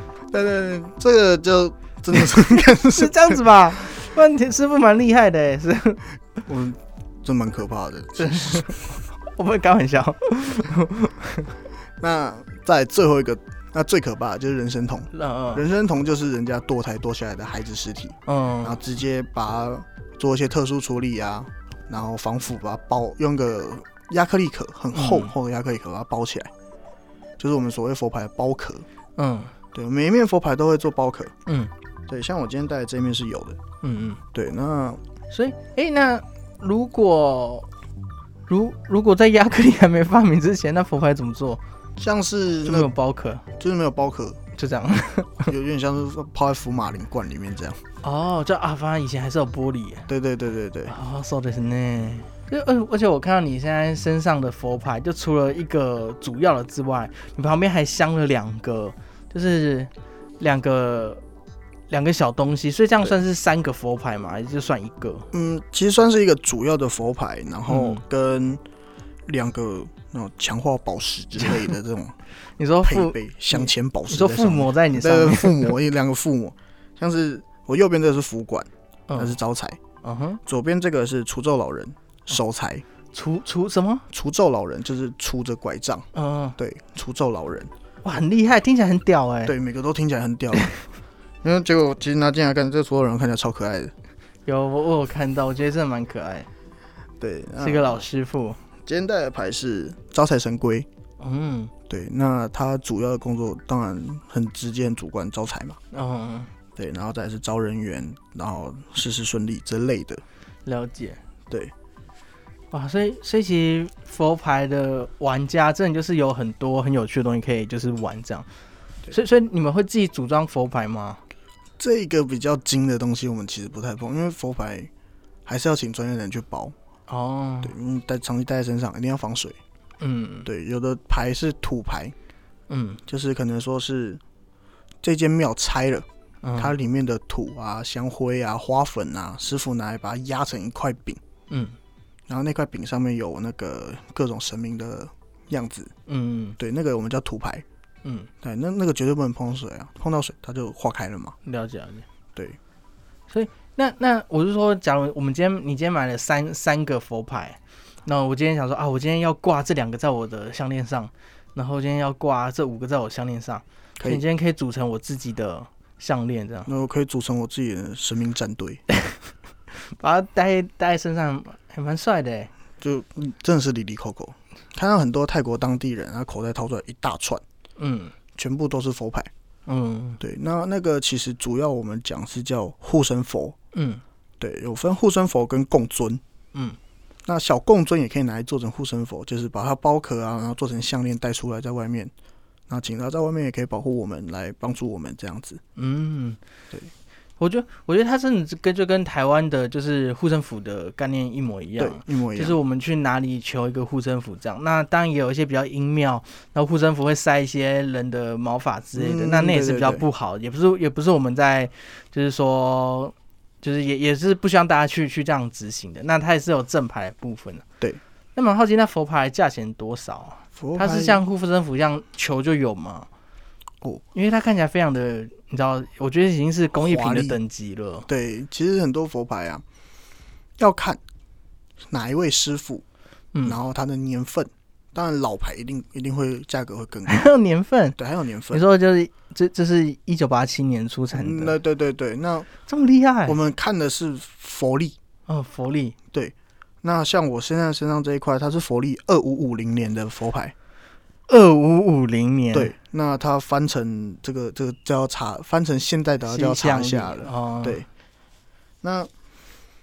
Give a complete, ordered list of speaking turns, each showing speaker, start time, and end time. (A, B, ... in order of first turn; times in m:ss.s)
0:00.3-0:03.4 A
0:02.2-0:06.0 B
0:06.5-0:09.0 A
0:08.2-0:11.5 B
0:12.0-0:26.5 A
0:15.1-0:15.6 B
0:18.3-0:18.8 B
0:24.9-0:25.3 B
0:27.4-0:28.9 A
0:29.2-0:29.5 B
0:29.7-0:31.3 A
0:31.5-0:31.7 B
0:32.1-0:33.6 A
0:33.8-0:34.2 B
0:34.3-0:35.0 A
0:35.3-0:37.7 B
0:38.5-0:41.6 B
0:42.0-0:42.9 A
0:42.7-0:43.4 B
0:43.6-0:44.4 A
0:44.6-0:45.5 B
0:45.4-0:47.8 A
0:48.0-0:50.1 B
0:50.1-0:51.0 A
0:50.9-1:01.2 B
1:01.9-1:05.3 B
1:05.3-1:08.6 A
1:07.7-1:08.0 B
1:09.3-1:12.2 A
1:12.6-1:15.7 B
1:12.8-1:19.8 A
1:19.1-1:19.4 B
1:20.0-1:20.4 B
1:20.4-1:22.8 A
1:23.1-1:24.1 B
1:24.1-1:27.7 A
1:26.1-1:26.6 B
1:28.0-1:29.5 B
1:29.4-1:30.7 A
1:31.4-1:33.9 A
1:34.5-1:36.5 B
1:37.2-1:38.0 A
1:37.6-1:38.6 B
1:38.8-1:40.9 A
1:41.2-1:41.7 B
1:41.9-1:45.8 A
1:45.9-1:46.5 B
1:46.8-1:50.2 A
1:50.6-1:51.2 B
1:52.7-1:58.5 B
1:59.1-2:01.2 B
2:01.8-2:04.9 A
2:05.5-2:06.8 A
2:07.1-2:07.7 B
2:07.6-2:09.6 A
2:10.0-2:10.5 B
2:10.4-2:12.2 A
2:12.7-2:13.0 B
2:13.1-2:14.2 A
2:15.0-2:21.2 A
2:16.4-2:16.7 B
2:21.5-2:21.8 B
2:22.3-2:25.9 A
2:26.1-2:26.6 B
2:26.6-2:27.6 A
2:28.0-2:28.3 B
2:28.4-2:31.4 A
2:31.4-2:32.0 B
2:33.3-2:46.7 B
2:44.0-2:44.2 A
2:46.7-2:48.8 A
2:49.7-2:52.5 B
2:52.8-2:57.4 A
2:57.8-2:58.2 B
2:58.4-2:59.3 A
2:59.7-3:00.2 B
3:00.2-3:03.6 A
3:03.7-3:04.0 B
3:04.4-3:06.2 A
3:06.5-3:06.8 B
3:07.3-3:12.1 A
3:12.7-3:15.6 A
3:15.8-3:16.4 B
3:17.4-3:37.6 B
3:21.8-3:22.6 A
3:29.0-3:30.0 A
3:38.4-3:43.1 B
3:40.6-3:41.2 A
3:44.1-3:48.1 B
3:46.8-3:47.4 A
3:48.1-3:49.6 A
3:50.6-3:51.0 A
3:51.9-3:52.8 A
3:53.4-3:57.3 A
3:57.1-3:58.0 B
3:58.0-3:58.6 A
3:58.5-4:01.6 B
4:01.1-4:02.5 A
4:02.7-4:03.4 B
4:03.2-4:05.0 A
4:05.3-4:06.0 B
4:06.1-4:10.6 A
4:11.3-4:12.7 B
4:12.5-4:17.9 A
4:16.3-4:17.8 B
4:18.8-4:19.1 A